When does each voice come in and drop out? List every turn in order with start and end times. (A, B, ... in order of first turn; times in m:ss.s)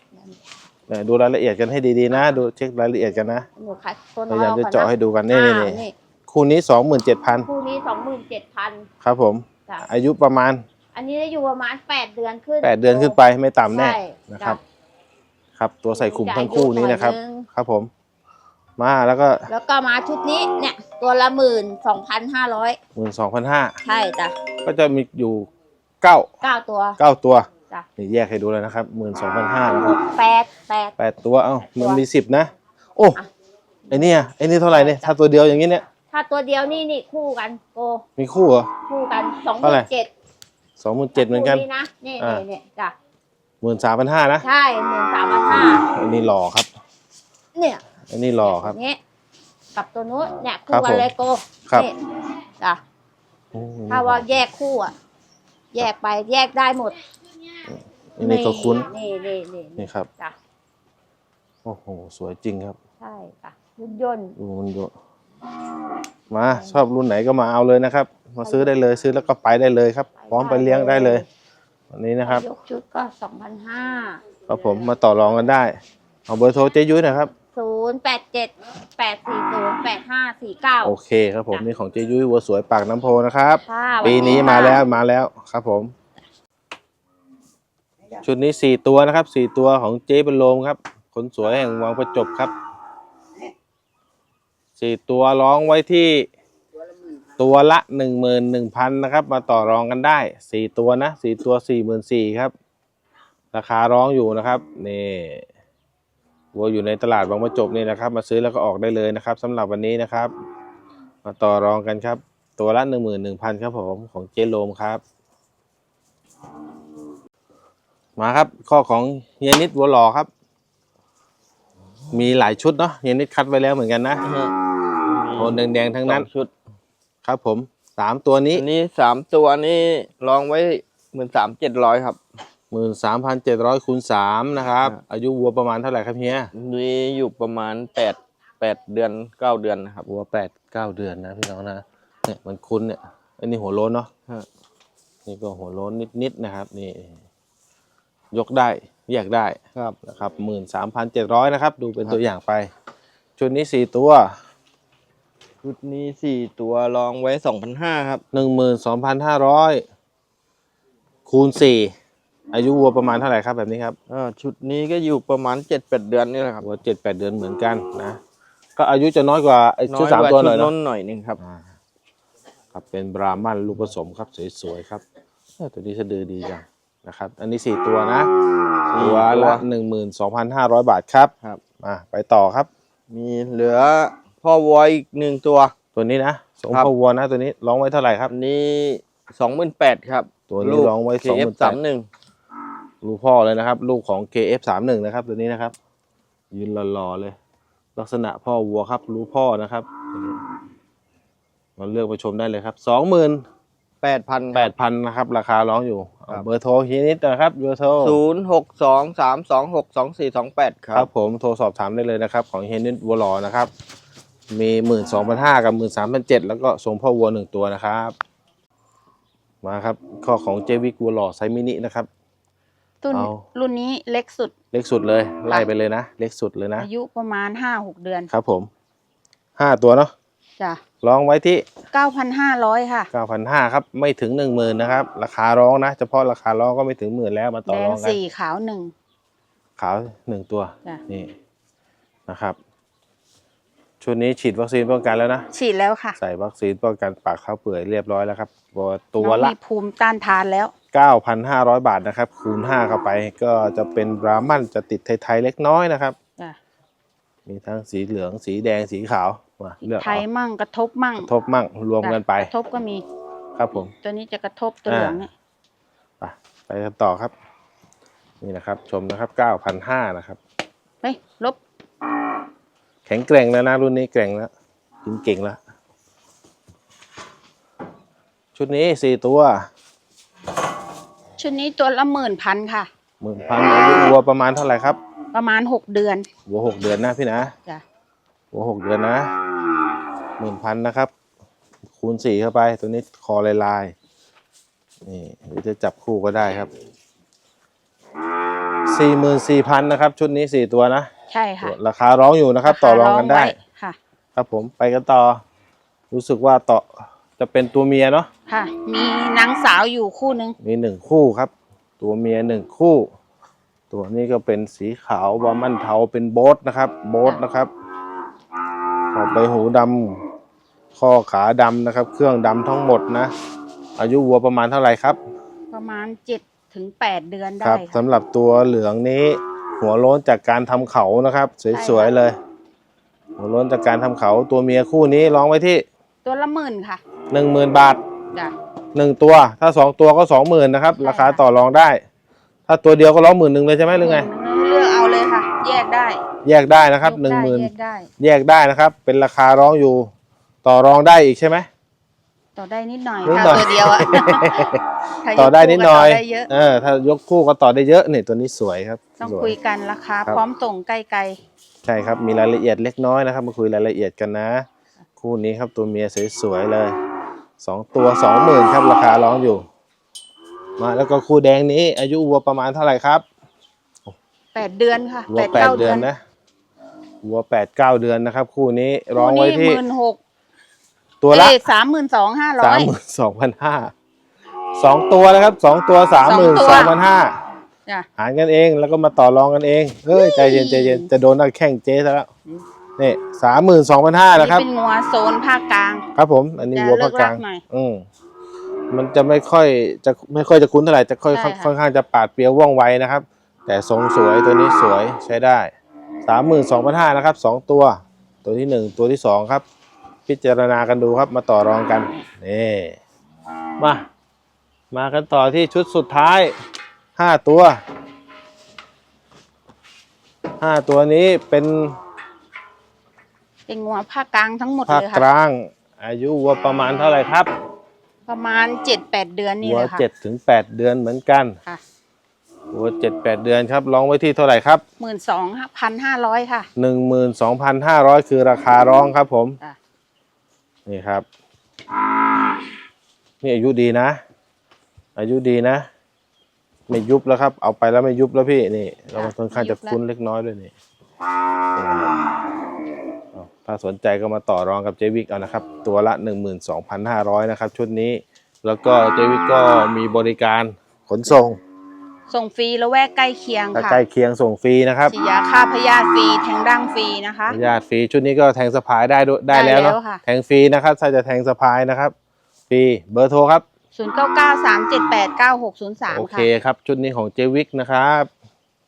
0:00.9-0:03.4 A
0:02.1-0:02.4 B
0:03.6-0:05.9 B
0:04.3-0:07.5 A
0:07.4-0:08.9 B
0:09.0-0:10.6 A
0:10.9-0:13.2 B
0:12.6-0:14.6 A
0:13.7-0:14.6 B
0:15.6-0:17.9 A
0:15.9-0:17.5 B
0:18.8-0:19.4 A
0:19.5-0:22.8 B
0:22.9-0:23.8 A
0:23.8-0:24.4 B
0:24.6-0:25.5 A
0:26.0-0:26.3 A
0:26.4-0:27.0 B
0:27.0-0:30.0 A
0:29.7-0:30.9 B
0:31.0-0:33.2 A
0:31.7-0:32.0 B
0:33.9-0:35.8 A
0:34.7-0:35.1 B
0:36.1-0:38.0 B
0:38.2-0:38.7 A
0:38.9-0:40.1 B
0:39.6-0:39.9 A
0:40.8-0:41.6 A
0:41.2-0:42.9 B
0:42.2-0:42.4 A
0:43.6-0:44.4 A
0:44.4-0:45.8 B
0:45.5-0:46.7 A
0:47.6-0:47.8 B
0:48.1-0:48.8 A
0:48.4-0:49.0 B
0:49.8-0:52.0 B
0:50.7-0:51.1 A
0:53.5-0:54.3 A
0:53.9-0:54.9 B
0:55.7-0:57.0 B
0:58.2-0:58.9 A
0:58.2-1:00.3 B
0:59.8-1:00.1 A
1:01.6-1:02.8 A
1:03.0-1:04.3 B
1:04.4-1:04.9 A
1:06.3-1:11.2 A
1:08.4-1:08.8 B
1:10.2-1:11.2 B
1:11.9-1:12.4 A
1:12.2-1:14.2 B
1:14.5-1:15.8 A
1:16.3-1:17.3 A
1:17.5-1:21.0 B
1:20.8-1:25.9 A
1:23.6-1:24.8 B
1:28.2-1:32.5 A
1:34.8-1:36.3 A
1:37.4-1:42.5 A
1:43.5-1:45.4 A
1:46.5-1:50.3 A
1:51.2-1:55.0 A
1:58.2-2:00.3 A
2:02.1-2:04.2 A
2:04.2-2:04.5 C
2:05.1-2:06.5 C
2:05.4-2:06.3 A
2:07.2-2:08.6 A
2:08.5-2:12.2 C
2:12.7-2:16.5 A
2:16.5-2:20.1 C
2:20.1-2:24.1 A
2:25.2-2:27.2 A
2:28.3-2:32.7 A
2:33.4-2:34.3 A
2:35.6-2:38.2 C
2:38.3-2:39.8 A
2:41.3-2:41.9 A
2:42.5-2:44.0 A
2:44.1-2:46.7 C
2:46.6-2:48.2 A
2:48.8-2:50.7 A
2:49.9-2:51.4 C
2:51.4-2:51.6 A
2:52.7-2:55.0 A
2:55.6-2:58.3 A
2:58.9-2:59.6 C
2:59.0-3:02.7 A
3:03.1-3:05.7 C
3:05.9-3:08.3 A
3:08.3-3:12.1 C
3:10.5-3:11.8 A
3:13.0-3:15.7 A
3:16.5-3:17.4 A
3:18.0-3:20.4 A
3:21.8-3:23.4 A
3:24.0-3:24.7 C
3:24.5-3:28.2 A
3:28.0-3:31.1 C
3:30.9-3:33.7 A
3:34.5-3:38.1 A
3:39.6-3:42.1 A
3:43.0-3:44.5 D
3:43.1-3:43.4 A
3:44.7-3:46.9 A
3:46.8-3:48.3 D
3:48.3-3:48.7 A
3:49.6-3:50.1 A
3:51.0-3:51.6 A
3:51.9-3:53.1 D
3:53.1-3:58.2 A
3:57.6-3:58.9 D
3:59.8-4:01.3 A
4:02.3-4:02.6 A
4:04.0-4:05.5 A
4:05.5-4:06.2 D
4:06.2-4:09.5 A
4:09.2-4:10.7 D
4:10.9-4:16.2 A
4:17.4-4:20.2 A
4:19.8-4:21.3 D
4:21.2-4:22.5 A
4:22.0-4:23.0 D
4:23.6-4:23.9 A
4:24.0-4:25.3 D
4:24.9-4:25.2 A
4:26.2-4:27.3 A
4:28.4-4:30.4 A
4:31.0-4:31.6 D
4:33.1-4:34.5 A
4:35.0-4:35.6 A
4:38.6-4:39.7 A
4:41.4-4:42.9 D
4:43.2-4:45.0 A
4:45.3-4:46.3 D
4:46.5-4:47.5 A
4:48.5-4:49.3 A
4:50.4-4:51.1 A
4:52.0-4:53.9 A
4:55.0-4:56.7 A
4:58.9-5:01.1 A
5:01.3-5:01.8 D
5:01.6-5:03.6 A
5:02.7-5:04.0 D
5:04.4-5:05.4 A
5:06.1-5:08.3 A
5:08.5-5:10.6 D
5:10.6-5:13.1 A
5:13.9-5:17.7 A
5:19.1-5:20.2 A
5:21.0-5:23.3 A
5:24.0-5:25.2 A
5:25.7-5:28.0 D
5:27.6-5:32.4 A
5:31.7-5:32.1 D
5:33.4-5:35.8 A
5:36.2-5:37.0 D
5:37.3-5:38.0 A
5:38.9-5:42.0 A
5:41.0-5:41.4 D
5:42.7-5:44.3 A
5:44.0-5:46.2 D
5:46.4-5:50.1 A
5:47.0-5:48.1 D
5:50.6-5:51.7 A
5:52.6-5:54.6 D
5:53.2-5:54.8 A
5:55.2-5:56.5 D
5:55.4-5:59.5 A
5:59.2-6:01.4 D
6:01.8-6:04.7 A
6:05.2-6:07.0 A
6:07.6-6:09.7 A
6:10.8-6:13.2 A
6:14.6-6:16.1 D
6:15.3-6:16.2 A
6:17.2-6:19.8 A
6:19.2-6:20.2 D
6:21.2-6:21.7 A
6:21.3-6:22.9 D
6:22.6-6:23.9 A
6:24.8-6:27.3 A
6:26.2-6:26.9 D
6:28.2-6:32.3 A
6:30.1-6:31.1 D
6:33.0-6:34.7 A
6:34.4-6:36.0 D
6:36.2-6:38.0 A
6:36.7-6:37.6 D
6:38.9-6:45.7 A
6:41.3-6:41.7 D
6:46.2-6:49.6 A
6:50.3-6:53.0 A
6:53.8-6:54.0 A
6:54.9-6:56.5 A
6:57.2-6:57.8 A
7:00.6-7:02.0 A
7:03.7-7:05.2 D
7:04.9-7:07.5 A
7:08.3-7:10.0 D
7:09.6-7:11.6 A
7:12.7-7:14.8 A
7:15.0-7:16.7 D
7:16.8-7:19.6 A
7:20.8-7:21.2 A
7:23.4-7:24.2 A
7:25.2-7:25.9 A
7:26.9-7:30.7 A
7:29.1-7:30.0 D
7:31.7-7:32.1 A
7:33.3-7:41.6 A
7:42.3-7:44.0 D
7:43.7-7:45.1 A
7:45.1-7:47.6 D
7:47.5-7:52.1 A
7:49.5-7:50.2 D
7:52.7-7:53.6 A
7:54.0-7:56.5 D
7:56.1-7:58.3 A